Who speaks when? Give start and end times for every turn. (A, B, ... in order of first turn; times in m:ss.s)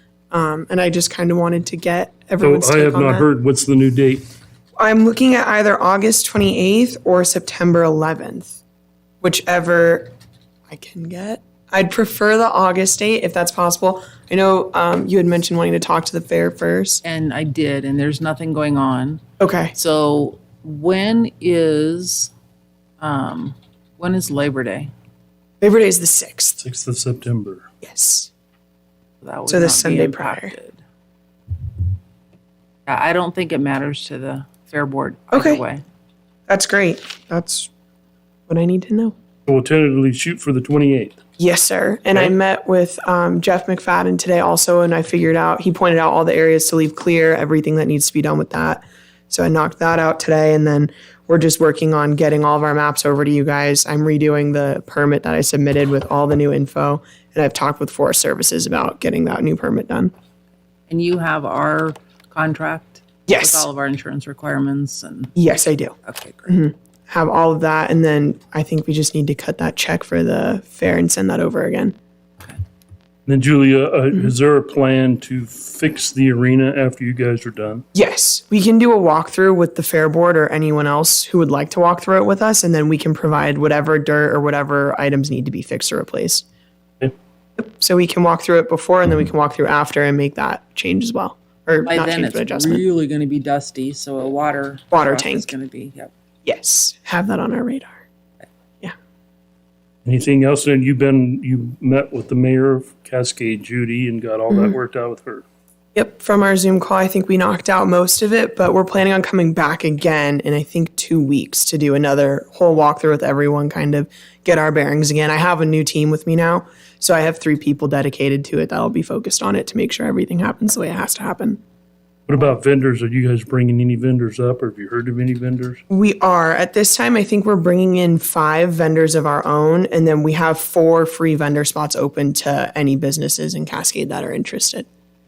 0:00.3-0:03.3 A
0:02.4-0:04.3 B
0:04.8-0:08.6 A
0:09.2-0:10.1 A
0:10.7-0:17.0 A
0:17.0-0:19.2 C
0:19.4-0:19.7 A
0:19.7-0:22.3 C
0:23.0-0:24.9 C
0:25.6-0:26.6 A
0:26.6-0:27.7 B
0:27.8-0:28.3 A
0:29.2-0:30.8 C
0:29.5-0:30.6 A
0:32.9-0:35.8 C
0:35.3-0:35.6 A
0:36.5-0:37.7 A
0:38.5-0:39.2 A
0:39.5-0:41.2 B
0:41.4-1:00.1 A
1:00.9-1:05.4 C
1:03.3-1:03.7 A
1:05.4-1:06.0 A
1:06.0-1:06.6 C
1:06.5-1:12.0 A
1:13.3-1:17.8 B
1:17.9-1:26.4 A
1:27.6-1:32.8 A
1:31.9-1:36.1 C
1:34.9-1:35.5 A
1:36.4-1:38.0 A
1:40.0-1:45.4 B
1:44.5-1:44.8 A
1:46.0-2:01.6 A
2:02.3-2:05.8 B
2:05.9-2:14.9 A